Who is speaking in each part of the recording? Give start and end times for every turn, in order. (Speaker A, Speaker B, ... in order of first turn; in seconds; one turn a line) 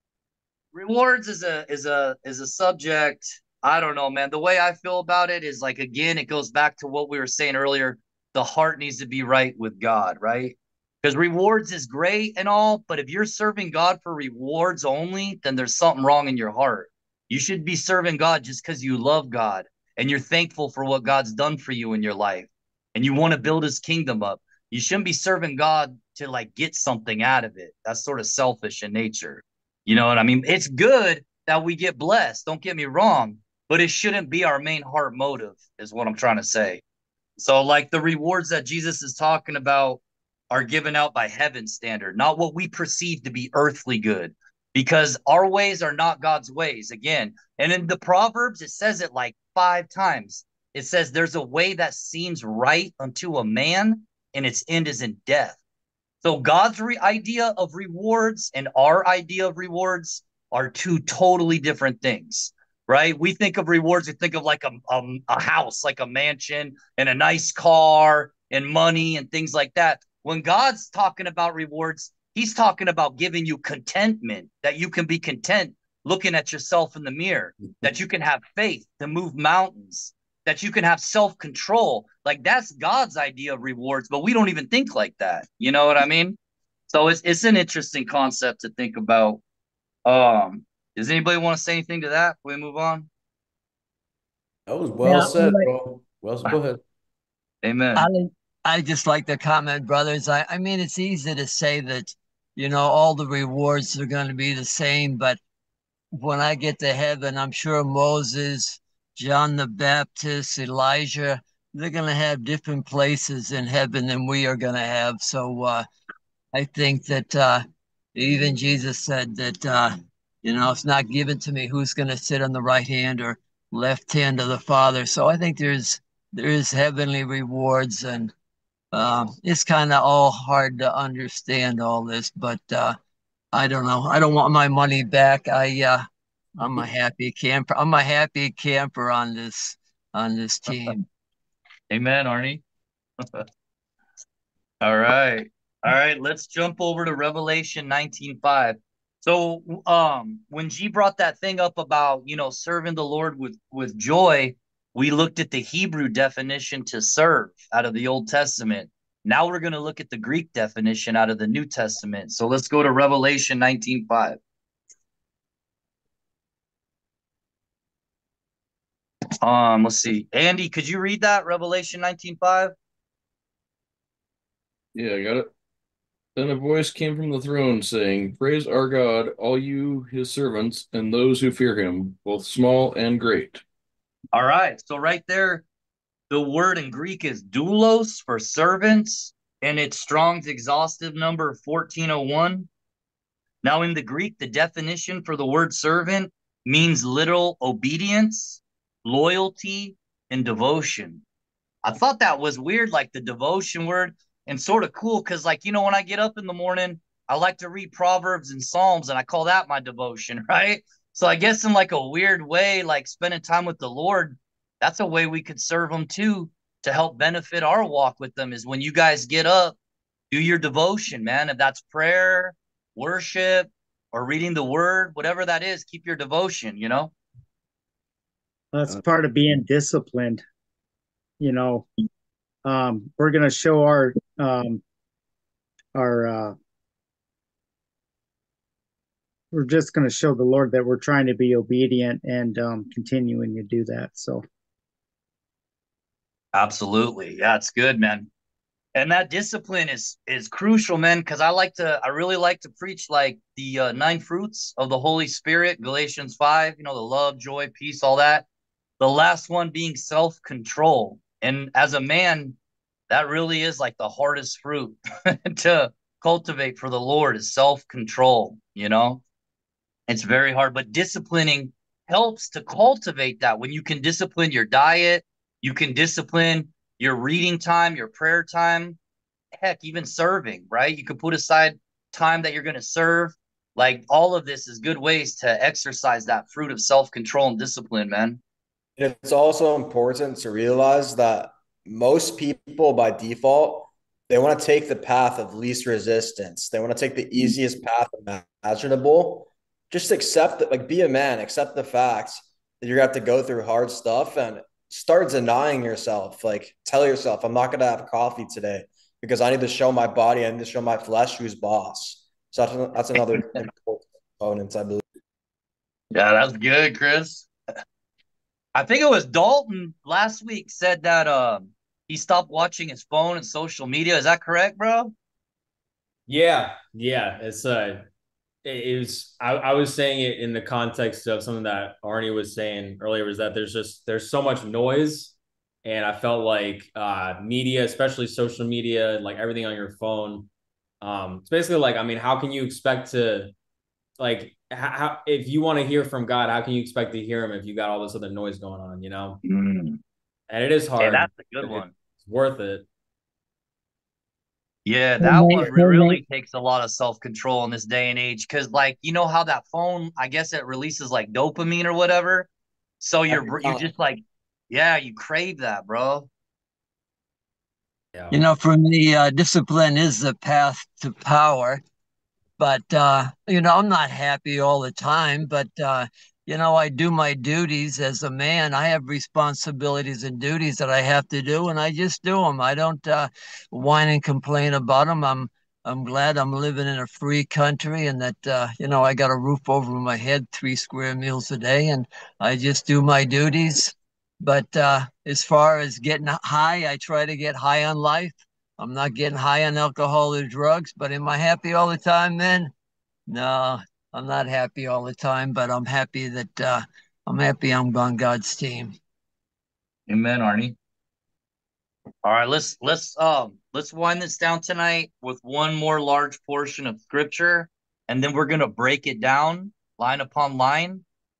Speaker A: 0.7-36.8
Speaker A: 37.4-40.0
Speaker A: 40.5-55.6
Speaker A: 56.2-86.4
Speaker A: 86.9-89.4
Speaker A: 90.0-93.1
Speaker B: 94.7-96.8
Speaker C: 95.0-95.7
Speaker A: 97.6-98.1
Speaker C: 98.0-105.4
Speaker C: 106.1-115.9
Speaker C: 116.5-117.6
Speaker C: 118.1-128.3
Speaker C: 128.9-133.0
Speaker C: 133.5-136.1
Speaker C: 136.6-141.0
Speaker A: 141.9-142.6
Speaker A: 144.8-164.4
Speaker A: 169.4-172.7
Speaker D: 174.9-175.5
Speaker D: 176.3-183.6
Speaker A: 184.3-185.6
Speaker A: 186.3-192.7
Speaker A: 193.6-201.2
Speaker A: 201.8-219.8
Speaker A: 220.3-227.1
Speaker E: 228.7-230.4
Speaker E: 231.4-231.9
Speaker E: 232.6-234.8
Speaker E: 235.9-236.5
Speaker E: 239.5-244.4
Speaker A: 246.5-248.3
Speaker A: 248.9-258.4
Speaker A: 259.0-262.6
Speaker A: 263.1-269.2
Speaker A: 270.1-279.0
Speaker A: 279.6-288.4
Speaker F: 289.0-315.0
Speaker A: 316.1-317.5
Speaker A: 318.7-325.1
Speaker G: 326.3-328.0
Speaker G: 328.6-340.5
Speaker G: 341.0-343.5
Speaker G: 344.2-349.4
Speaker A: 349.4-350.0
Speaker G: 350.5-352.8
Speaker A: 351.0-351.9
Speaker A: 354.8-362.5
Speaker C: 355.2-356.2
Speaker A: 363.0-366.3
Speaker C: 368.3-371.8
Speaker C: 372.6-402.7
Speaker C: 403.3-408.9
Speaker A: 410.1-410.8
Speaker A: 412.2-421.0